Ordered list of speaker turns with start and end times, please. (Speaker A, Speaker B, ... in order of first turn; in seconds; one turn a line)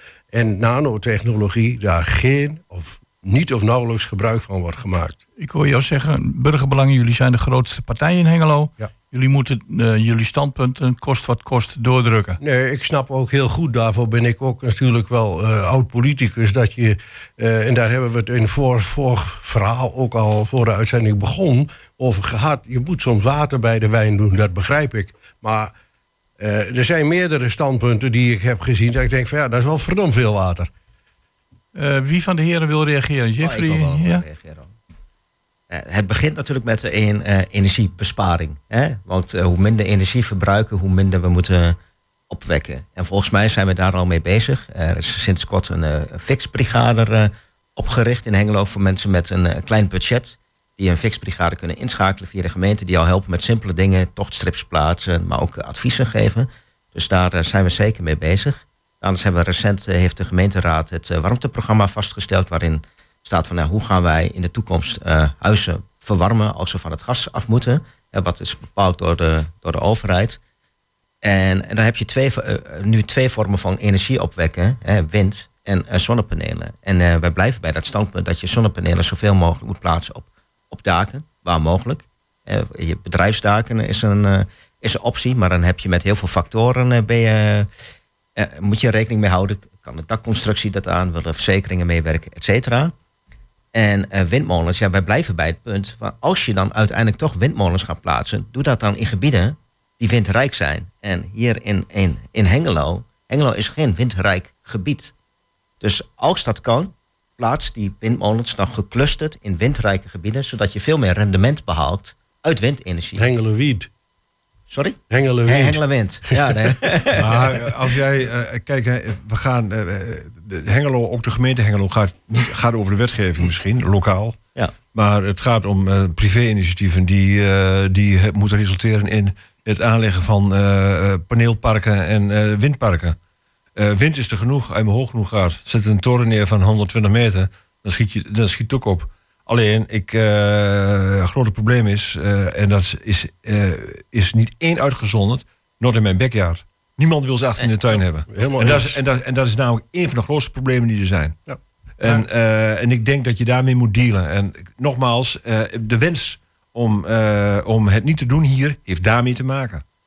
Speaker A: 0.3-5.2
Speaker B: 5.4-12.4
Speaker A: 12.4-25.7
Speaker A: 26.4-30.7
Speaker B: 31.7-34.2
Speaker C: 33.4-34.7
Speaker C: 35.7-41.8
Speaker C: 42.3-70.4
Speaker C: 71.2-87.7
Speaker C: 88.4-92.9
Speaker C: 93.7-105.1
Speaker C: 105.8-113.2
Speaker A: 113.2-113.9
Speaker C: 114.7-117.7
Speaker A: 115.1-117.0
Speaker D: 117.1-124.4
Speaker D: 124.9-133.2
Speaker D: 133.8-151.4
Speaker A: 148.3-149.0
Speaker D: 152.0-159.8